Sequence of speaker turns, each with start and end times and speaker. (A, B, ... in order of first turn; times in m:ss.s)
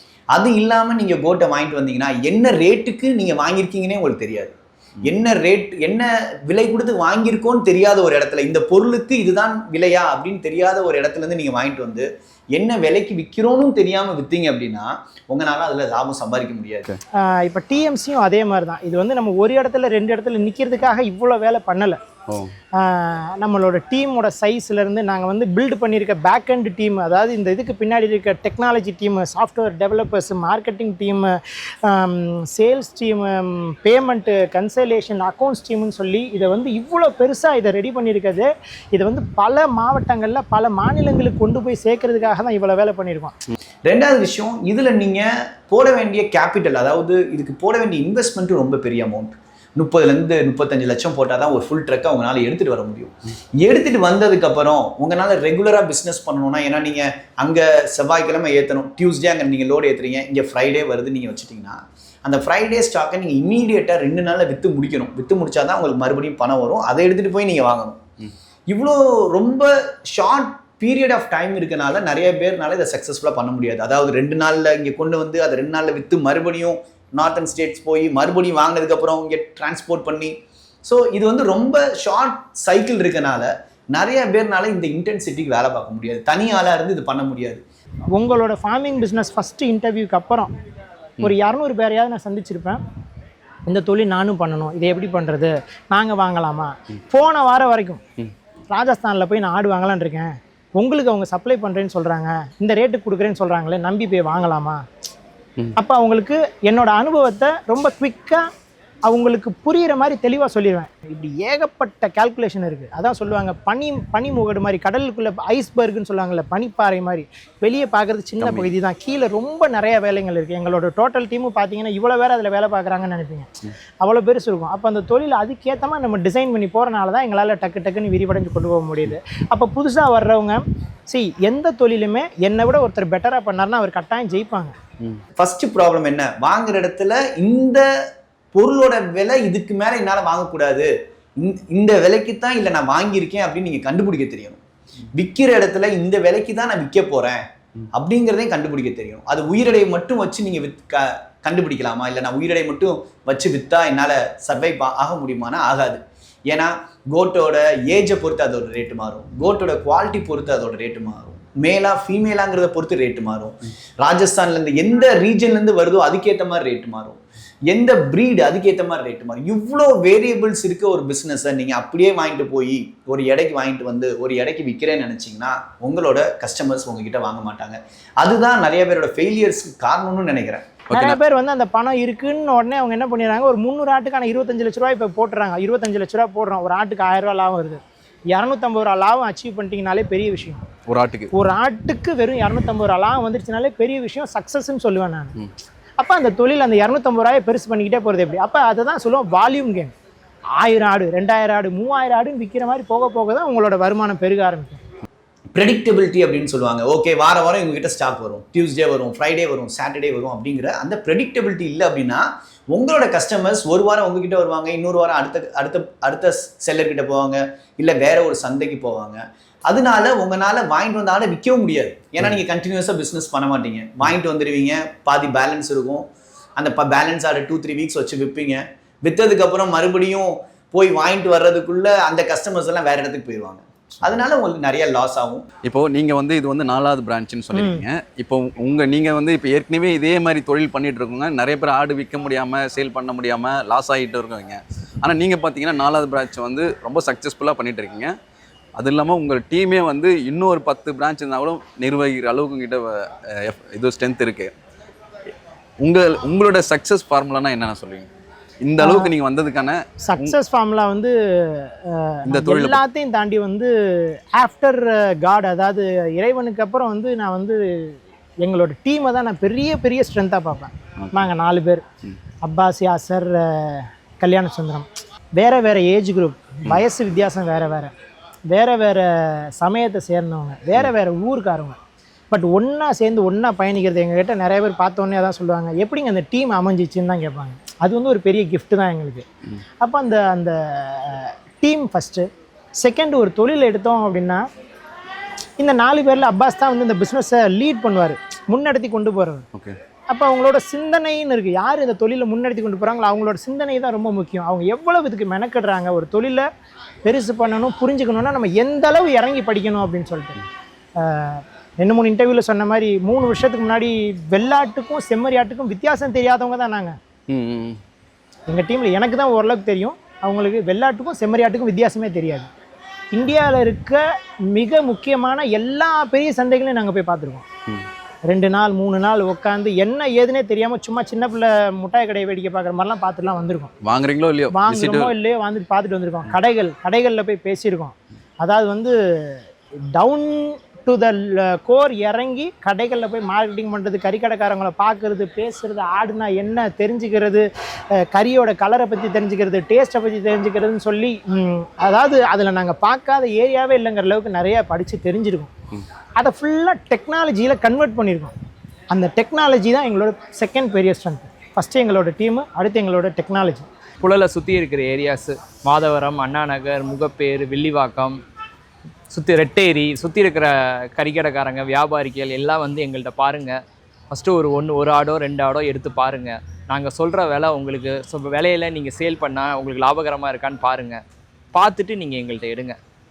0:00.3-0:16.9 A
0:17.1-0:22.0 B
0:22.7-0:43.4 B
0:43.8-1:08.0 A
1:08.7-1:27.6 A
1:28.1-1:30.5 B
1:31.2-1:32.8 B
1:33.7-1:38.0 B
1:38.7-1:44.8 B
1:45.8-1:48.4 B
1:49.0-2:03.5 B
1:58.4-1:58.7 C
2:04.0-2:14.7 B
2:15.3-2:17.8 A
2:18.5-2:24.6 A
2:25.1-3:00.7 A
3:00.9-3:01.2 C
3:00.9-3:07.8 B
3:08.3-3:10.6 B
3:10.9-3:11.3 C
3:11.3-3:15.4 B
3:16.0-3:19.9 B
3:20.6-3:24.8 B
3:25.5-3:46.1 A
3:46.6-3:55.5 A
3:55.6-4:08.1 C
3:57.5-3:57.8 B
4:08.8-4:14.5 C
4:15.8-4:18.1 C
4:18.6-4:20.3 C
4:18.8-4:19.1 B
4:20.0-4:31.8 B
4:22.2-4:22.8 C
4:31.0-4:31.3 C
4:32.4-4:37.9 B
4:38.5-4:41.8 B
4:42.3-4:49.2 B
4:49.8-4:52.3 B
4:52.8-4:54.4 B
4:55.6-4:59.4 B
5:00.1-5:06.5 B
5:07.0-5:10.4 B
5:11.0-5:17.0 B
5:17.3-5:17.8 C
5:18.5-5:22.5 B
5:23.1-5:27.4 B
5:28.3-5:33.7 B
5:33.8-5:35.1 C
5:34.5-5:39.4 B
5:39.9-5:55.5 B
5:56.2-5:58.3 B
5:58.9-6:03.7 B
6:04.0-6:08.2 D
6:09.1-6:13.6 D
6:14.1-6:21.0 D
6:21.5-6:22.8 D